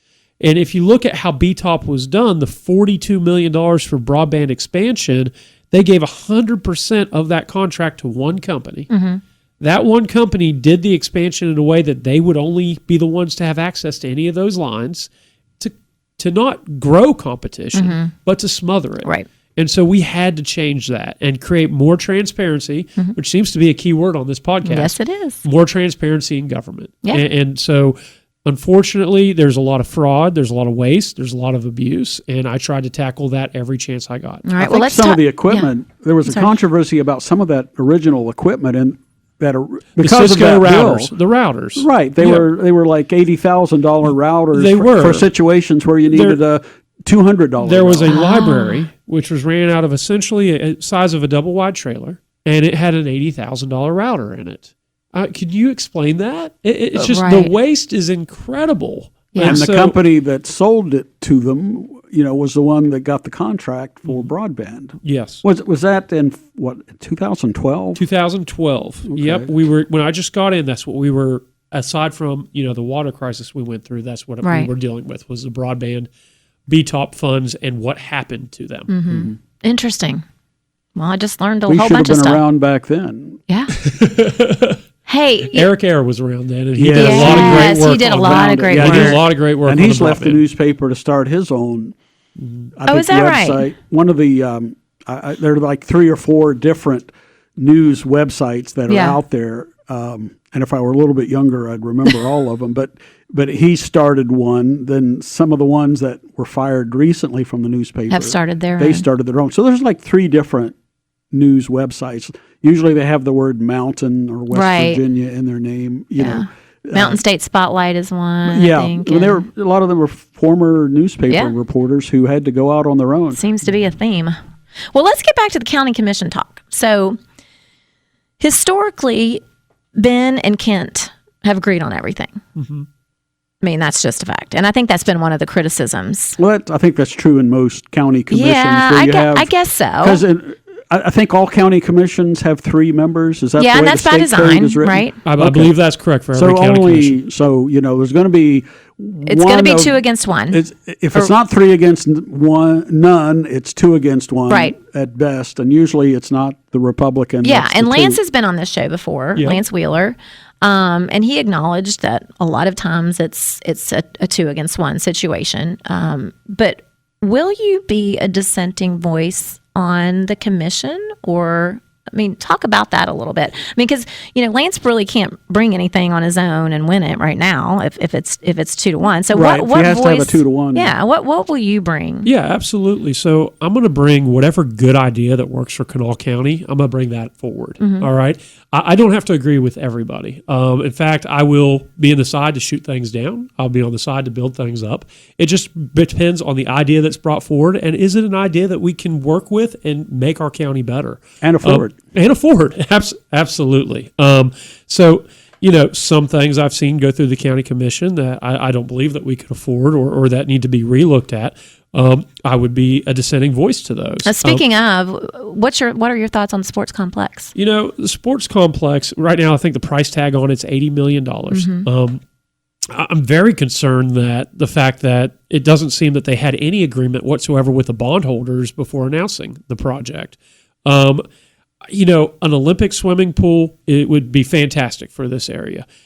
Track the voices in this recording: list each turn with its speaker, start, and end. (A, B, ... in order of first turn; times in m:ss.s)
0:00.4-0:08.9 A
0:08.9-0:09.2 B
0:09.6-0:34.5 A
0:17.7-0:18.1 B
0:24.6-0:25.4 B
0:34.4-0:35.7 B
0:34.6-0:41.1 C
0:36.3-0:36.6 B
0:40.0-0:42.5 A
0:41.8-0:48.2 C
0:44.5-0:45.3 A
0:46.1-0:46.4 A
0:47.6-1:00.0 A
0:48.1-0:48.8 B
0:57.0-0:57.5 B
0:59.3-0:59.6 B
0:59.4-1:08.0 C
1:05.0-1:05.4 A
1:08.0-1:16.1 A
1:09.1-1:09.5 C
1:14.4-1:14.7 B
1:16.7-1:18.9 A
1:18.9-1:20.2 B
1:19.1-1:19.4 C
1:21.0-1:22.4 B
1:21.7-1:23.4 C
1:23.8-1:24.8 A
1:25.1-1:25.7 B
1:25.5-1:30.4 A
1:26.8-1:32.0 C
1:26.9-1:29.2 B
1:32.4-1:32.7 A
1:32.8-1:50.8 C
1:32.9-1:33.7 B
1:38.9-1:39.2 B
1:48.1-1:49.1 B
1:51.3-1:57.2 C
1:54.5-1:55.0 B
1:56.2-1:59.4 B
1:58.5-2:03.4 C
2:01.3-2:01.5 B
2:03.3-2:04.4 B
2:04.9-2:07.2 B
2:08.4-2:09.4 B
2:10.0-2:12.4 B
2:12.6-2:12.9 A
2:13.6-2:16.4 B
2:16.4-2:25.8 C
2:18.3-2:20.2 B
2:23.6-2:25.2 B
2:25.2-2:27.2 A
2:26.3-2:30.0 C
2:29.3-2:30.6 B
2:30.5-2:38.2 C
2:34.5-2:34.8 B
2:37.4-3:02.3 B
2:59.3-3:00.9 C
3:02.2-3:34.6 A
3:07.8-3:08.1 B
3:21.4-3:22.0 C
3:34.2-3:37.5 B
3:37.6-3:42.2 A
3:41.5-3:41.9 B
3:42.9-3:51.2 A
3:51.9-3:55.9 A